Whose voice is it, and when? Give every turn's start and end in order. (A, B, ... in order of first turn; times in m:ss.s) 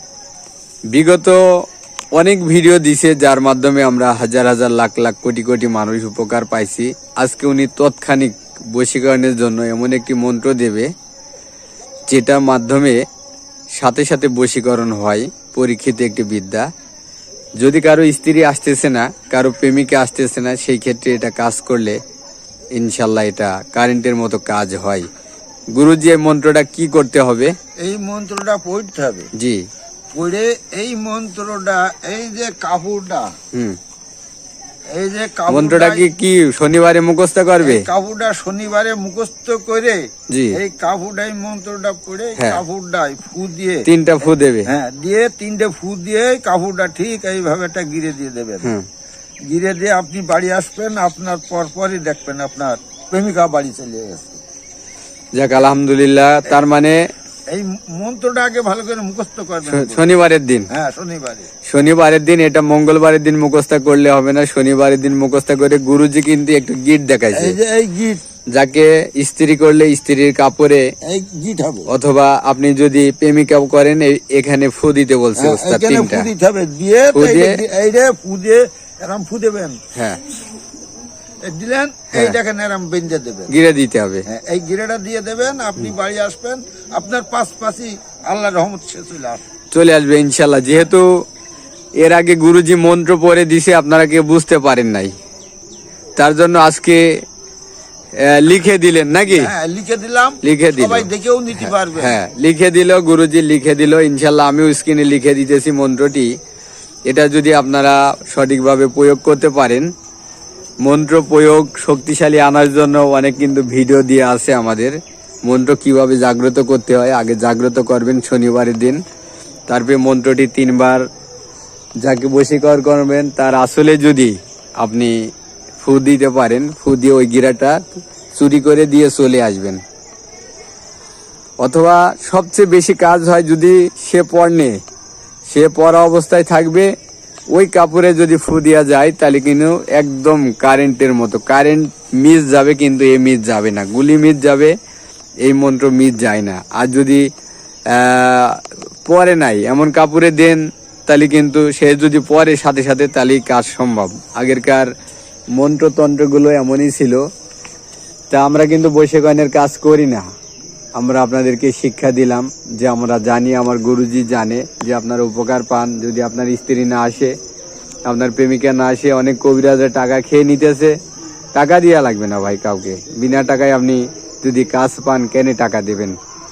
0:00.9-0:01.4 A
0:02.1-0:10.9 A
0:12.1-0:13.0 A
0:13.8-0:16.6 A
0:17.6-0:22.0 A
0:22.7-0:25.1 A
0:25.7-0:27.5 A
0:27.8-0:29.3 B
0:29.4-0:29.6 A
0:30.1-0:33.3 B
0:33.5-0:33.8 A
0:34.9-0:36.1 B
0:35.5-0:37.8 A
0:37.6-0:43.8 B
0:40.3-0:40.6 A
0:42.4-0:42.6 A
0:43.8-0:44.7 A
0:44.6-0:48.7 B
0:49.5-0:54.4 B
0:55.3-0:57.0 A
0:57.5-1:00.1 B
0:59.7-1:00.7 A
1:00.7-1:01.5 B
1:01.7-1:07.6 A
1:07.3-1:08.2 B
1:08.5-1:10.9 A
1:11.0-1:11.9 B
1:11.9-1:16.3 A
1:15.4-1:19.8 B
1:17.1-1:17.6 A
1:19.9-1:20.2 A
1:21.4-1:23.5 B
1:23.5-1:24.2 A
1:24.3-1:29.4 B
1:29.7-1:31.1 A
1:32.0-1:35.1 A
1:36.2-1:37.1 A
1:38.2-1:39.5 A
1:39.3-1:42.2 B
1:40.4-1:41.1 A
1:41.6-1:46.3 A
1:47.1-1:49.9 A
1:50.8-1:59.0 A
1:59.7-2:01.0 A
2:02.0-2:05.1 A
2:05.8-2:09.8 A
2:11.6-2:14.8 A
2:15.5-2:16.9 A
2:17.5-2:24.7 A
2:25.4-2:27.2 A
2:27.9-2:34.9 A
2:35.5-2:37.2 A
2:38.3-2:40.3 A
2:41.0-2:47.3 A
2:48.0-2:51.0 A
2:51.5-2:56.2 A